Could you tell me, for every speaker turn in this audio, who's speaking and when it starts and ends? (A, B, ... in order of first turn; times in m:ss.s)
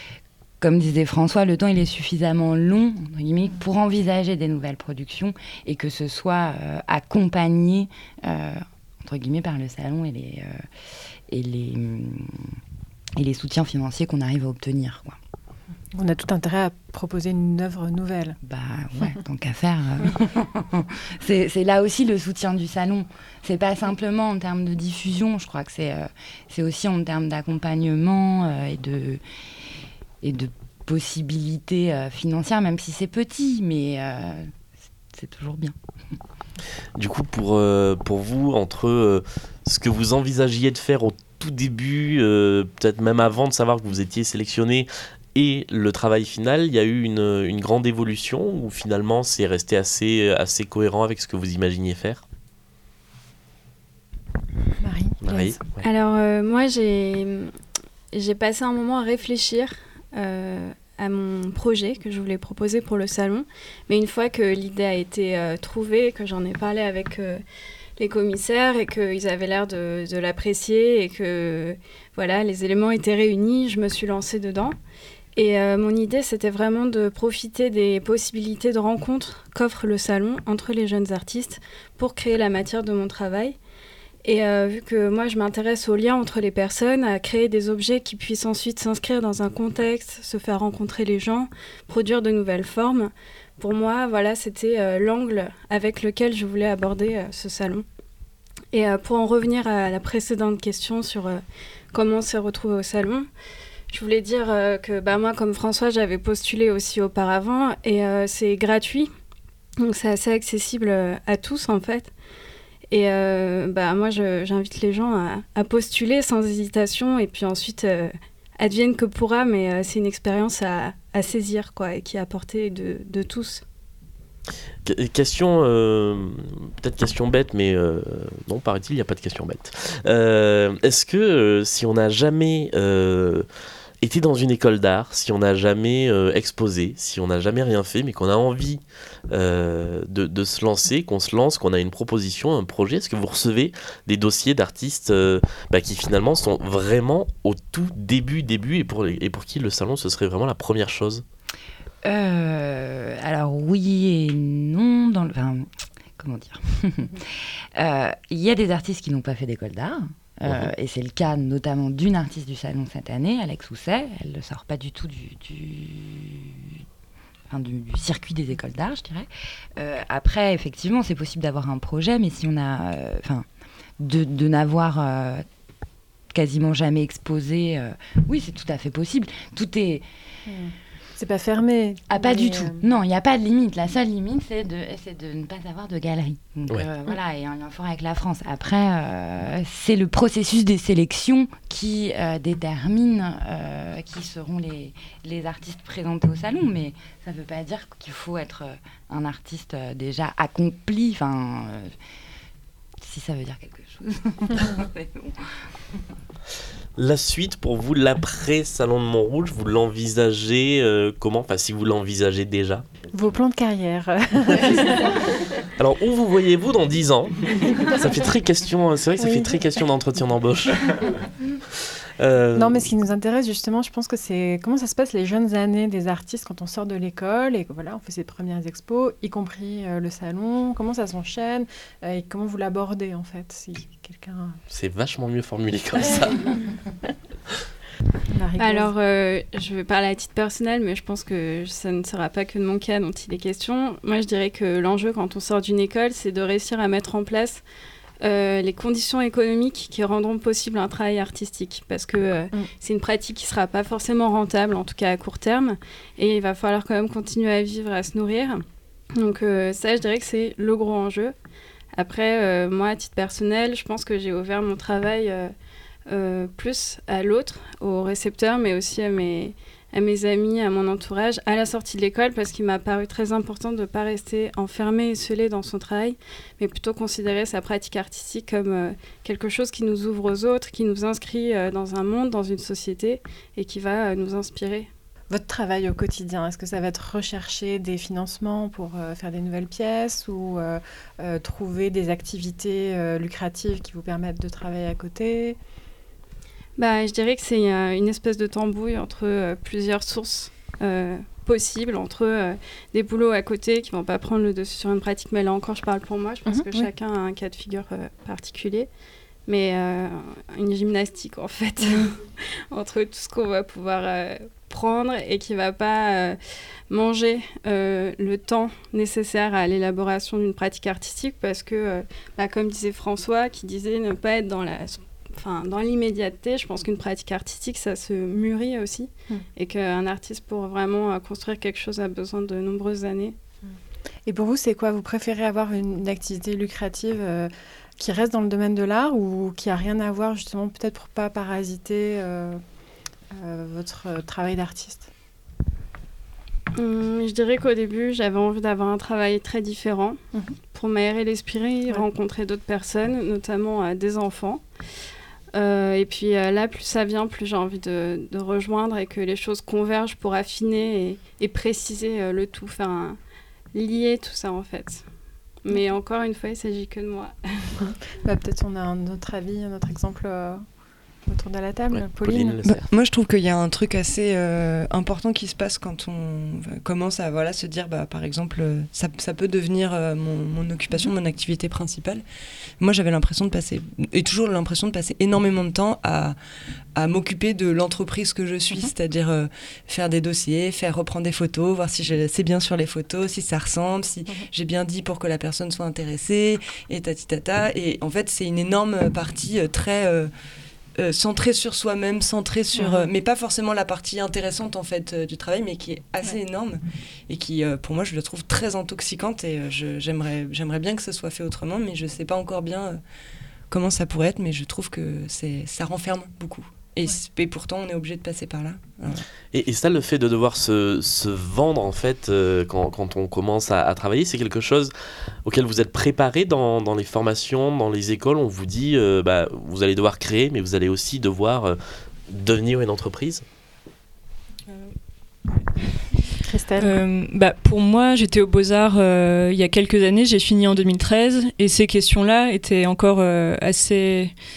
0:00.6-0:10.6 A
0:11.3-0:12.6 A
0:13.2-0:15.2 A
0:15.9-0:18.4 B
0:18.4-0:29.2 A
0:30.2-0:34.5 A
0:35.1-0:35.7 A
0:37.0-0:52.2 C
0:54.8-0:55.6 B
0:55.2-0:55.8 C
0:55.8-0:57.5 D
0:58.1-1:07.4 D
1:08.0-1:14.7 D
1:15.4-1:23.6 D
1:24.2-1:37.8 D
1:38.7-1:43.3 D
1:43.9-1:49.1 D
1:49.8-1:52.1 D
1:52.9-2:03.6 D
2:04.8-2:13.4 C
2:14.0-2:31.2 C
2:32.0-2:46.8 A
2:47.5-2:53.4 A
2:54.0-2:55.4 A
2:56.3-3:00.0 A
3:00.5-3:02.8 B
3:02.1-3:21.9 A
3:23.0-3:25.4 A
3:27.0-3:32.8 C
3:33.1-3:35.2 B
3:35.8-3:41.0 C
3:37.6-3:38.0 B
3:39.2-3:39.8 B
3:42.2-3:42.9 C
3:42.5-3:54.6 B
3:54.7-3:56.5 C
3:58.3-3:58.9 B
3:58.6-4:07.6 D
4:08.2-4:18.6 D
4:19.2-4:21.3 D
4:21.9-4:25.5 D
4:26.1-4:44.9 D
4:45.3-4:55.6 B
4:56.8-5:08.9 D
5:06.4-5:06.9 B
5:09.5-5:16.4 D
5:16.9-5:33.4 D
5:34.2-5:42.6 B
5:43.3-5:45.1 B
5:46.7-5:50.2 D
5:50.7-5:54.6 D
5:55.5-6:03.2 D
6:03.7-6:05.0 D
6:05.6-6:07.8 D
6:07.8-6:10.6 B
6:11.3-6:12.6 B
6:11.9-6:12.9 C
6:12.6-6:22.2 E
6:22.8-6:26.4 E
6:26.9-6:40.3 E
6:41.0-6:53.0 E
6:42.7-6:43.1 B
6:53.7-6:59.2 E
6:59.5-7:04.9 C
7:05.4-7:11.8 C
7:12.3-7:13.4 C
7:16.5-7:17.0 B
7:16.7-7:24.3 F